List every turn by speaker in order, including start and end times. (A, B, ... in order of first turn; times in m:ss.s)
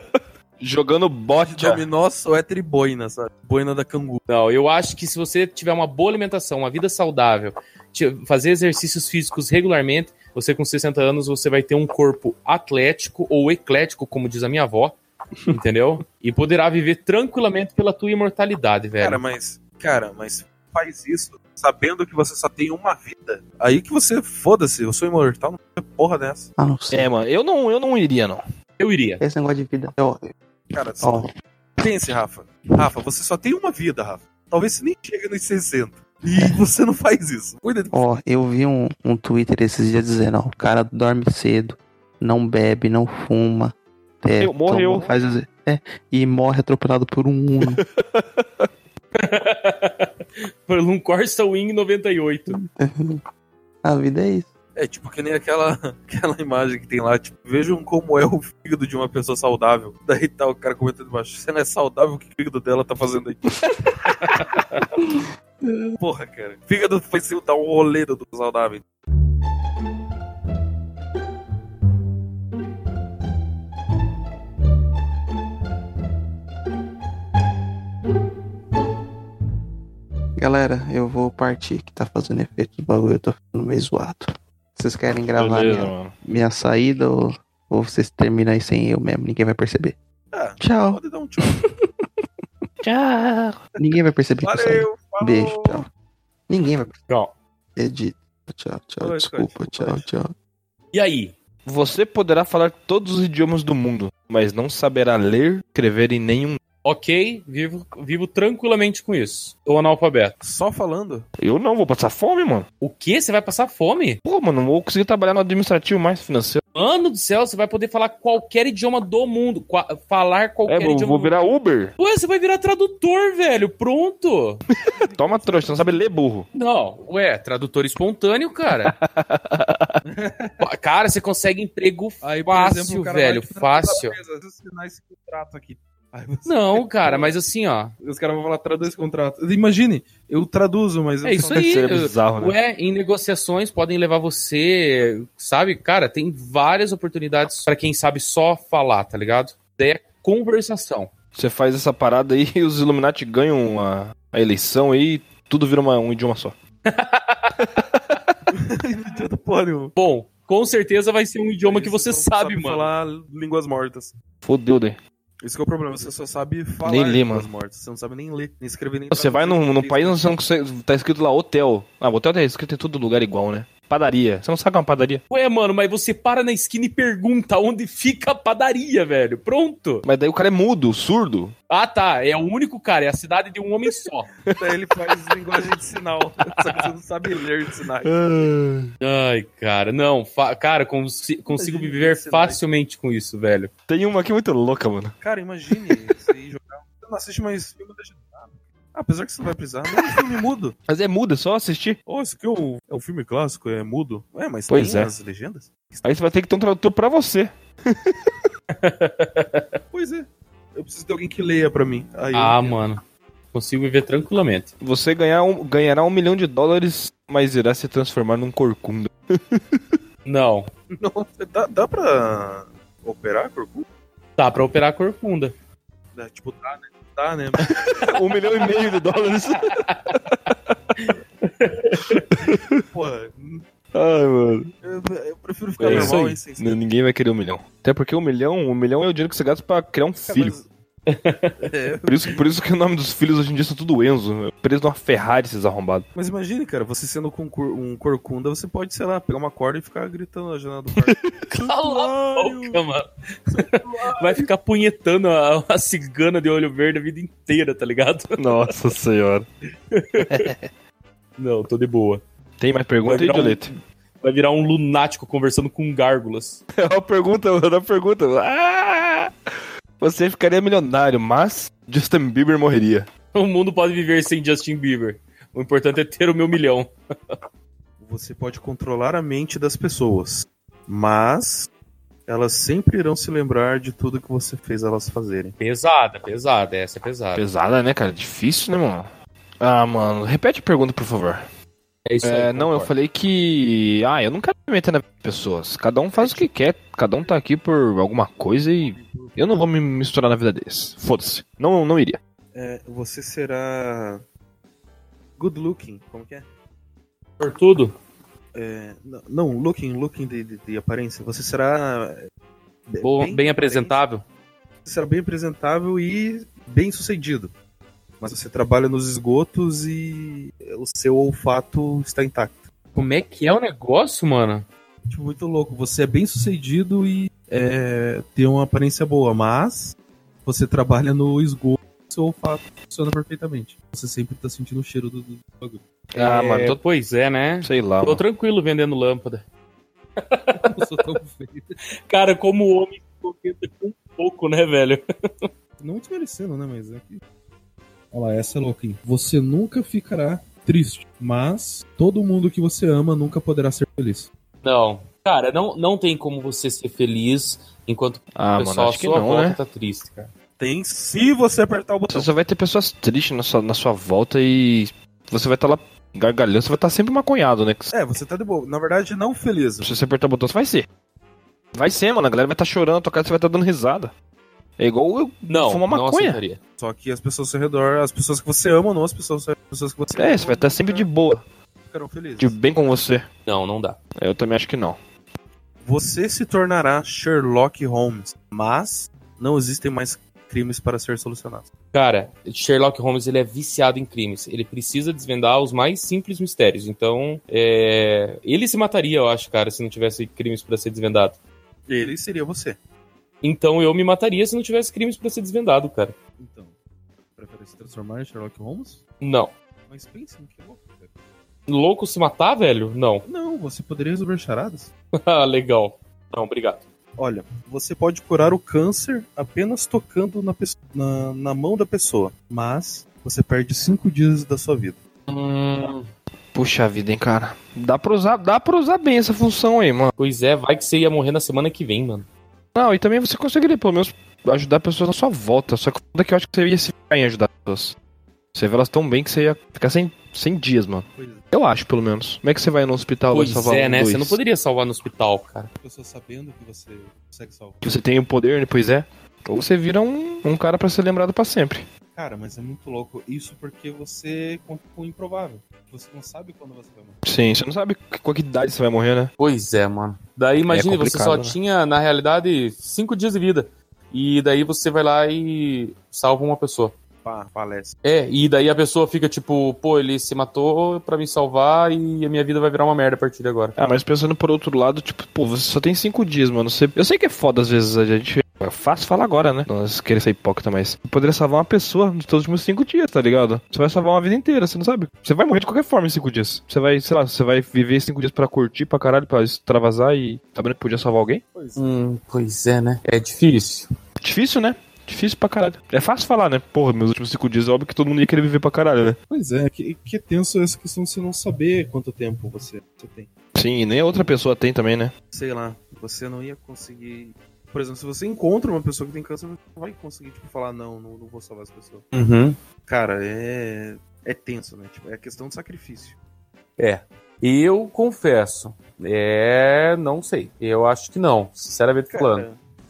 0:00.6-0:01.8 A
0:01.4-0:04.2 B
0:04.3-0:15.0 C
0:15.5-0:19.2 C
0:19.0-0:26.5 B
0:26.6-0:27.1 D
0:26.9-0:28.4 A
0:28.8-0:29.2 C
0:29.2-0:30.3 D
0:30.7-0:31.3 B
0:31.0-0:31.3 D
0:31.8-0:38.0 B
0:37.9-0:47.8 D
0:44.4-0:45.1 A
0:47.6-0:48.7 A
0:49.2-0:50.1 C
0:50.6-0:52.6 C
0:52.5-0:53.2 D
0:53.8-0:54.5 D
0:54.8-1:03.7 B
1:06.0-1:08.8 B
1:20.4-1:30.0 D
1:25.3-1:26.1 A
1:30.3-1:31.6 B
1:30.6-1:31.7 D
1:32.8-1:33.6 A
1:33.8-1:35.9 D
1:34.4-1:35.8 B
1:36.5-1:37.0 D
1:37.8-1:40.3 D
1:39.0-1:40.0 B
1:40.9-1:41.4 C
1:41.6-1:46.6 A
1:46.8-1:50.4 C
1:50.4-1:51.2 B
1:51.4-1:52.7 A
1:52.8-1:54.2 C
1:54.2-1:56.6 A
1:56.7-2:01.3 C
2:00.7-2:01.9 A
2:02.0-2:04.6 C
2:04.8-2:06.5 A
2:04.9-2:06.1 B
2:06.5-2:08.9 C
2:08.8-2:10.0 A
2:10.0-2:10.6 B
2:10.6-2:14.2 C
2:12.2-2:17.3 B
2:16.4-2:17.9 C
2:18.0-2:21.6 B
2:21.2-2:31.1 C
2:21.5-2:22.6 A
2:31.3-2:36.6 A
2:36.8-2:37.5 C
2:37.6-2:38.2 A
2:38.5-2:39.9 B
2:40.0-2:42.9 C
2:41.6-2:44.1 B
2:44.4-2:45.0 A
2:45.4-2:50.3 B
2:46.8-2:47.5 A
2:49.1-2:55.2 A
2:55.3-3:00.0 C
3:00.0-3:01.5 A
3:01.7-3:04.3 C
3:04.6-3:08.2 B
3:08.0-3:08.9 A
3:09.0-3:13.7 C
3:11.5-3:12.6 B
3:13.9-3:15.2 A
3:15.2-3:20.8 B
3:15.7-3:16.1 A
3:20.0-3:20.2 A
3:20.9-3:22.0 A
3:22.0-3:26.1 B
3:24.7-3:25.1 A
3:26.0-3:28.4 A
3:28.7-3:29.8 C
3:29.9-3:32.8 B
3:32.3-3:33.0 C
3:33.5-3:34.7 C
3:34.8-3:40.0 A
3:40.2-3:40.7 C
3:40.9-3:43.8 B
3:44.4-3:45.5 C
3:46.1-3:48.2 B
3:47.6-3:50.7 A
3:49.7-3:50.1 C
3:51.0-3:52.2 C
3:52.4-3:52.8 A
3:52.5-3:53.6 B
3:53.9-3:54.7 A
3:54.8-3:56.8 B
3:55.8-4:00.5 A
3:55.8-3:56.4 C
4:00.2-4:00.7 B
4:01.1-4:01.6 C
4:01.6-4:02.4 B
4:02.0-4:06.1 A
4:06.1-4:12.8 B
4:11.5-4:18.7 C
4:13.7-4:14.5 B
4:18.4-4:19.5 A
4:19.9-4:20.5 C
4:20.2-4:20.6 A
4:21.4-4:22.2 C
4:22.6-4:23.7 A
4:23.0-4:26.6 C
4:26.8-4:29.3 A
4:30.0-4:33.1 A
4:33.3-4:36.9 C
4:38.0-4:41.7 B
4:42.3-4:45.5 B
4:45.6-4:47.4 C
4:47.4-4:49.1 A
4:49.6-4:51.4 A
4:52.0-4:52.9 C
4:52.2-5:02.2 A
4:56.2-4:56.5 B
4:58.8-4:59.6 B
5:02.5-5:04.2 B
5:05.4-5:06.4 B
5:07.4-5:08.0 C
5:08.5-5:12.3 B
5:12.9-5:14.0 B
5:13.0-5:14.2 C
5:14.8-5:17.5 B
5:18.2-5:22.6 B
5:22.9-5:24.6 C
5:25.1-5:35.8 B
5:36.1-5:36.8 A
5:36.1-5:39.4 C
5:37.6-5:38.2 A
5:40.2-5:40.9 C
5:40.7-5:41.7 B
5:42.1-5:45.5 C
5:45.8-5:47.2 B
5:48.1-5:54.3 B
5:54.6-6:00.3 C
5:58.4-5:59.6 A
6:00.6-6:02.3 B
6:02.1-6:07.9 A
6:07.9-6:09.9 B
6:09.8-6:10.9 A
6:11.7-6:14.1 A
6:14.8-6:16.4 A
6:15.5-6:16.6 C
6:16.8-6:21.1 B
6:20.2-6:21.4 A
6:21.8-6:22.6 B
6:22.4-6:23.3 A
6:23.4-6:24.0 C
6:24.2-6:25.0 A
6:25.8-6:31.7 B
6:31.9-6:41.4 C
6:41.9-6:42.8 B
6:43.4-6:46.2 C
6:46.4-6:46.7 B
6:47.4-6:49.0 B
6:49.2-6:49.5 C
6:49.9-6:51.1 B
6:51.7-6:53.2 C
6:53.2-6:54.9 B
6:55.2-6:56.8 C
6:57.2-7:05.0 B
7:05.3-7:06.1 C
7:06.5-7:10.1 A
7:10.2-7:12.3 C
7:12.7-7:18.0 A
7:18.5-7:24.4 A
7:21.2-7:21.4 B
7:23.3-7:25.7 C
7:25.8-7:27.8 B
7:27.8-7:31.8 A
7:32.1-7:37.2 B
7:37.2-7:39.3 A
7:39.4-7:46.9 C
7:40.6-7:41.6 A
7:47.2-7:47.9 B
7:48.0-7:53.8 C
7:53.8-8:11.4 A
8:11.5-8:11.9 B
8:11.8-8:13.9 C
8:14.2-8:19.2 A
8:19.3-8:23.3 B
8:23.5-8:25.1 A
8:25.3-8:32.1 B
8:32.1-8:32.6 C
8:32.8-8:36.2 B
8:36.8-8:42.5 C
8:42.1-8:42.6 B